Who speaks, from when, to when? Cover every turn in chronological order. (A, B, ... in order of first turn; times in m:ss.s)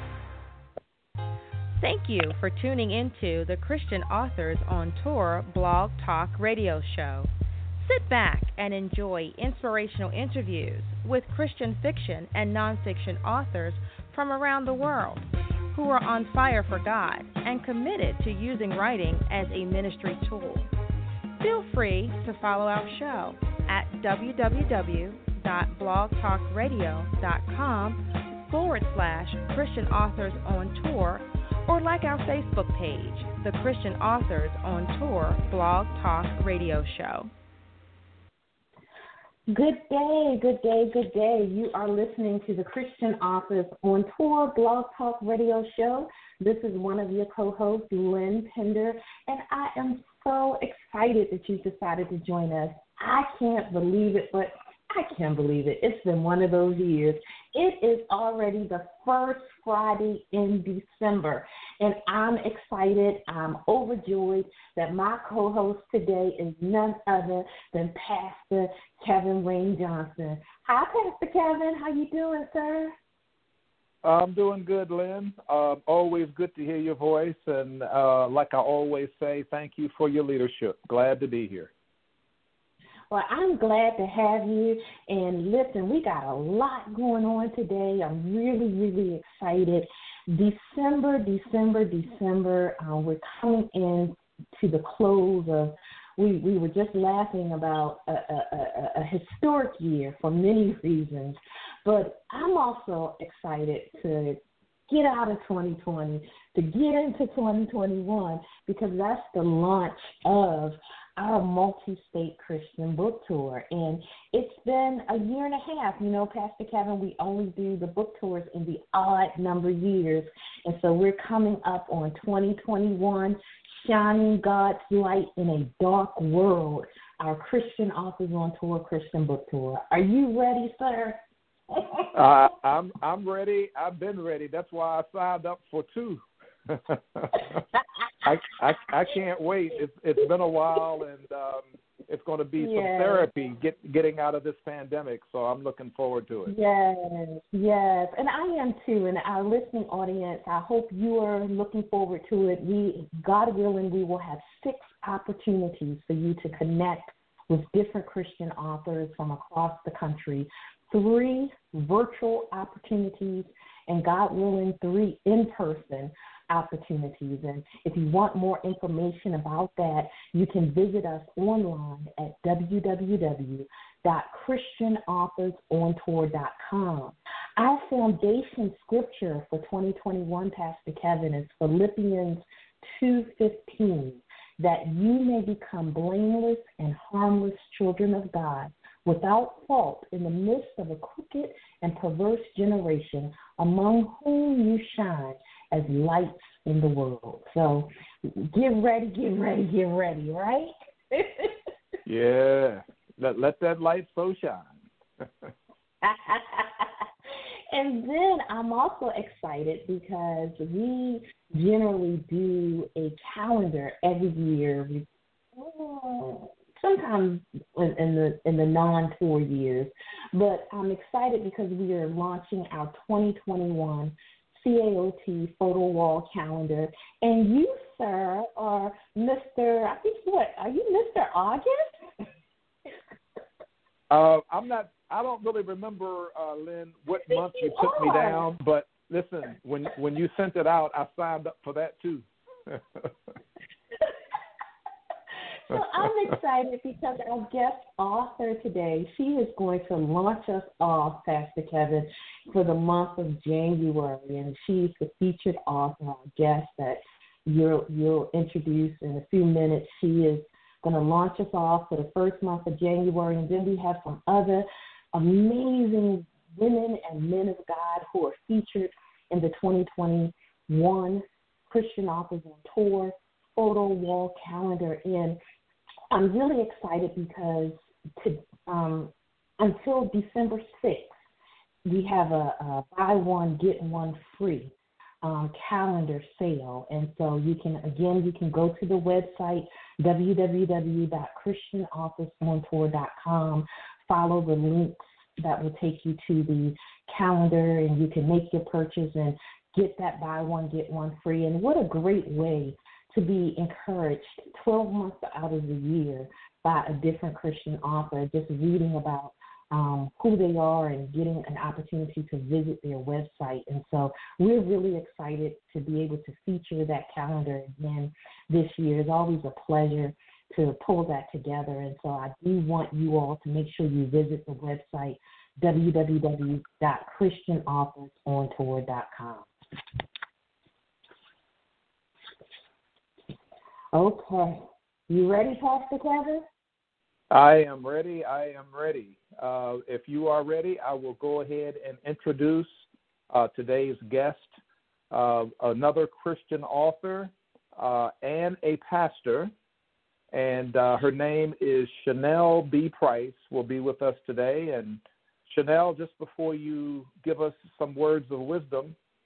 0:01.8-0:20.7 A
0:21.4-0:37.3 A
0:39.5-1:12.9 B
1:14.0-1:21.7 C
1:23.1-2:11.2 B
2:11.7-2:12.2 B
2:12.1-2:17.6 C
2:18.2-2:26.6 C
2:22.6-2:23.3 B
2:26.5-3:21.6 B
3:22.0-3:24.8 C
3:26.0-3:26.9 B
3:27.7-3:51.8 B
3:54.1-4:03.1 C
3:57.3-3:58.5 B
4:05.7-4:35.4 B
4:05.7-4:06.1 C
4:36.1-4:41.1 B
4:41.9-4:44.7 B
4:45.2-5:29.5 B
5:33.9-5:36.4 B
5:37.3-5:42.7 C
5:43.3-5:44.5 C
5:45.1-5:49.5 C
5:50.3-5:59.0 C